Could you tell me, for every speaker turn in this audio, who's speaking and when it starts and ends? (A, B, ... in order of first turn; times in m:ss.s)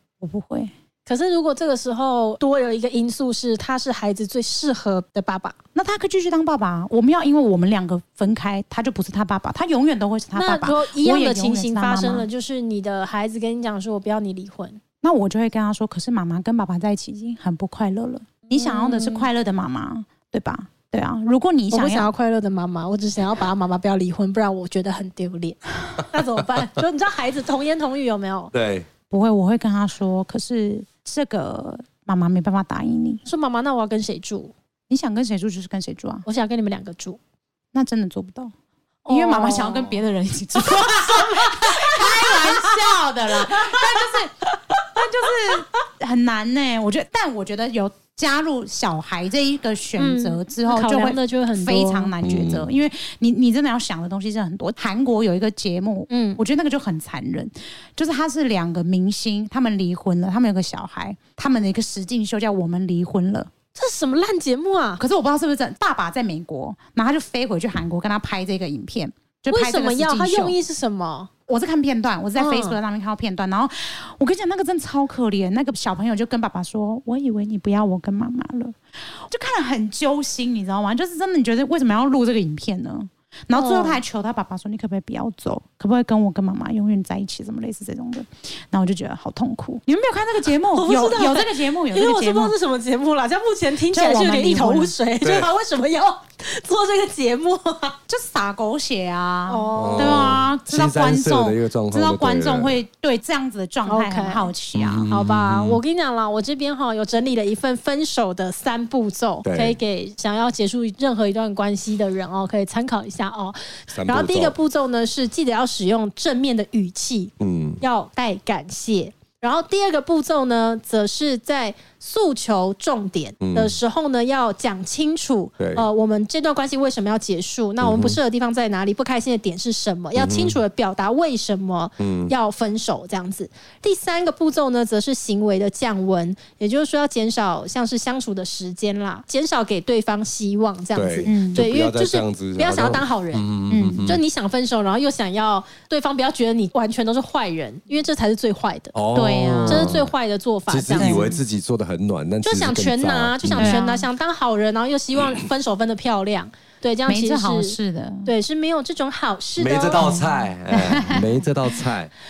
0:00.2-0:00.7 A
0:01.0-0:05.6 B
0:05.7-0:12.3 A
0:10.3-0:14.8 B
0:15.0-0:22.1 A
0:18.5-0:19.3 B
0:21.7-0:28.5 B
0:28.5-0:28.8 C
0:29.1-0:33.2 A
0:33.2-0:34.5 B
0:34.9-0:36.2 A
0:36.2-0:37.2 B
0:37.7-0:38.5 A
0:39.0-0:40.0 B
0:39.1-1:03.5 A
0:40.6-0:42.8 B
0:43.5-0:44.1 B
0:50.0-0:52.1 B
0:52.2-0:52.7 C
0:56.1-0:56.4 B
1:03.7-1:05.0 B
1:05.0-1:10.6 A
1:09.5-1:11.3 B
1:11.5-1:32.5 A
1:12.3-1:12.8 B
1:23.5-1:24.0 B
1:30.7-1:38.0 B
1:33.9-1:34.9 A
1:35.2-1:35.5 C
1:38.1-1:45.1 A
1:39.5-1:40.2 B
1:39.8-1:42.8 C
1:43.8-1:44.5 B
1:44.7-1:45.8 C
1:45.1-2:23.5 B
1:49.4-1:49.8 C
1:53.9-1:54.5 C
1:57.4-1:57.8 C
2:03.4-2:03.8 C
2:05.6-2:05.8 C
2:07.8-2:08.2 C
2:10.2-2:10.6 C
2:12.0-2:12.3 C
2:20.9-2:24.2 C
2:21.2-2:21.6 A
2:23.7-2:24.2 A
2:24.0-2:28.9 B
2:28.9-2:30.1 C
2:29.1-2:30.0 A
2:29.7-2:31.3 B
2:30.7-2:33.8 C
2:31.0-2:31.4 A
2:32.4-2:40.1 B
2:33.5-2:34.1 A
2:37.1-2:38.3 A
2:39.6-2:42.1 C
2:40.0-2:41.2 A